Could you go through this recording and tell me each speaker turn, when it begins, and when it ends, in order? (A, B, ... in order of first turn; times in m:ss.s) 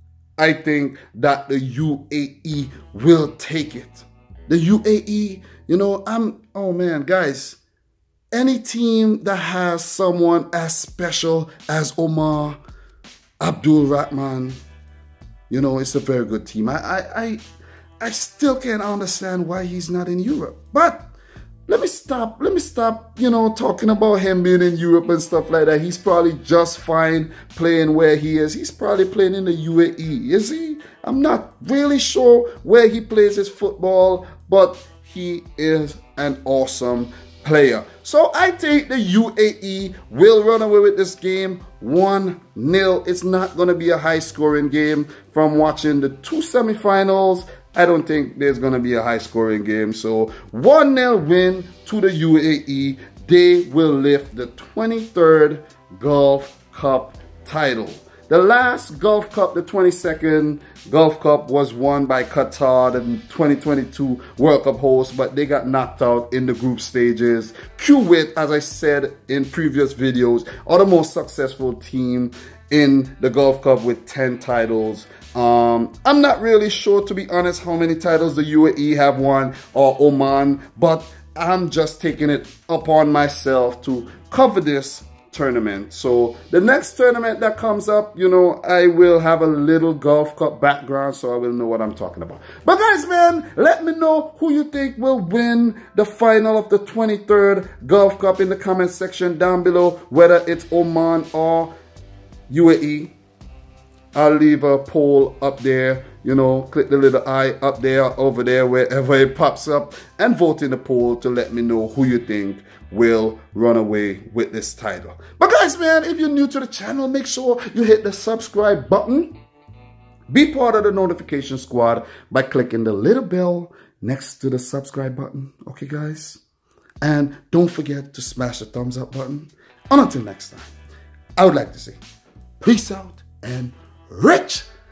0:00.4-0:07.6 A
0:08.3-0:12.6 A
0:13.4-0:14.6 A
0:15.5-0:17.4 A
0:18.0-0:21.1 A
0:21.7-1:41.7 A
1:42.5-1:43.1 A
1:44.2-1:59.4 A
2:00.3-2:06.4 A
2:07.0-2:10.7 A
2:11.4-2:12.0 A
2:12.6-2:14.7 A